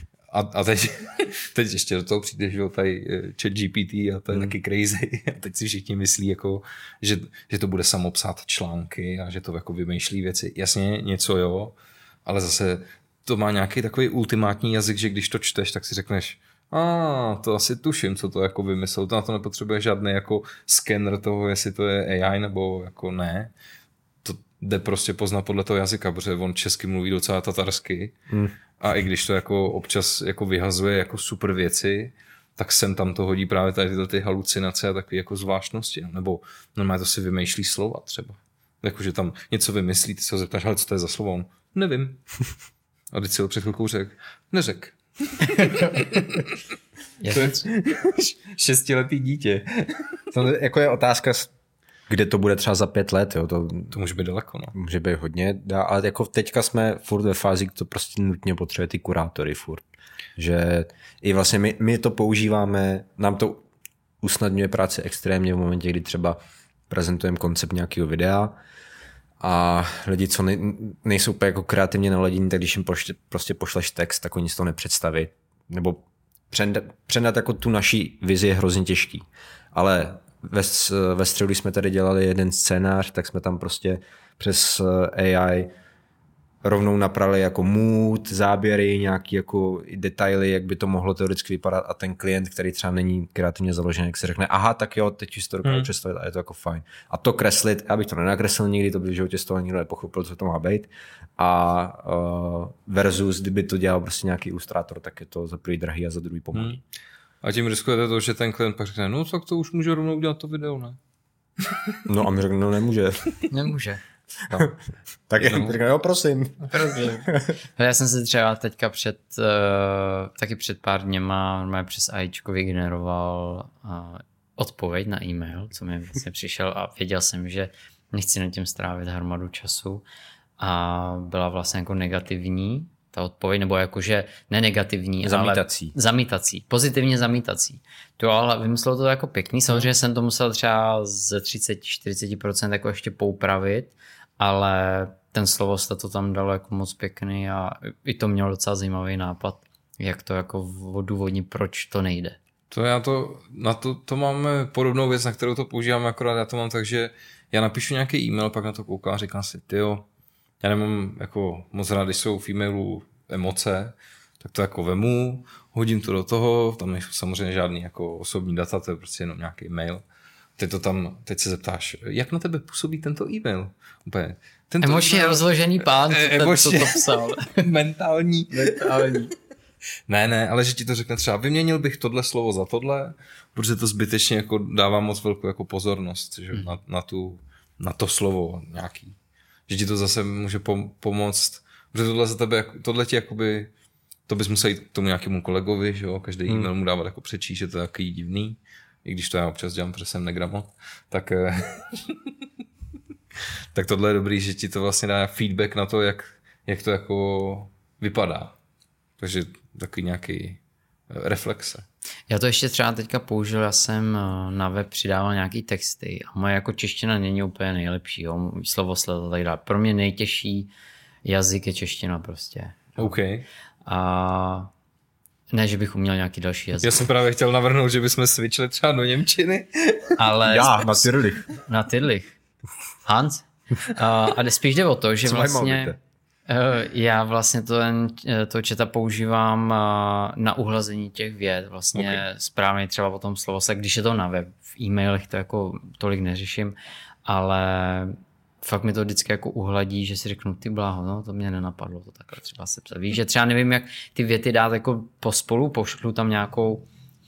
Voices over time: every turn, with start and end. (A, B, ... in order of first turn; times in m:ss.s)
0:00.3-0:23.5 A
0:24.2-0:28.2 A
0:28.3-0:28.5 B
0:28.8-0:42.2 A
0:43.1-0:46.6 A
0:45.6-0:46.2 C
0:47.2-0:47.6 C
0:47.3-0:50.0 A
0:50.3-0:51.5 B
0:52.1-0:53.9 B
0:53.9-0:54.7 A
0:54.7-0:59.8 B
1:00.4-1:03.6 B
1:04.2-1:08.6 B
1:09.4-1:25.7 B
1:26.6-1:46.8 B
1:46.5-1:46.8 A
1:47.4-1:51.0 A
1:51.6-1:52.0 A
1:52.0-1:53.4 B
1:53.5-1:54.7 C
1:54.5-1:54.8 B
1:55.3-1:57.6 B
1:55.4-1:55.8 A
1:56.7-2:10.0 C
2:10.6-2:32.4 C
2:15.2-2:15.9 B
2:32.7-2:40.0 A
2:40.6-2:50.0 A
2:50.6-2:59.1 A
2:54.8-2:57.7 C
2:58.5-2:59.3 C
3:00.1-3:09.2 A
3:09.7-3:13.7 A
3:14.3-3:22.2 A
3:23.7-3:28.6 A
3:29.2-3:31.8 A
3:32.3-3:40.7 C
3:41.2-3:43.1 C
3:43.0-3:43.4 A
3:43.8-3:44.7 C
3:45.5-3:47.0 C
3:46.8-3:50.2 A
3:50.2-3:52.3 C
3:50.5-3:51.4 B
3:53.0-3:56.0 C
3:55.2-3:56.0 B
3:56.5-4:16.9 C
4:01.9-4:02.2 A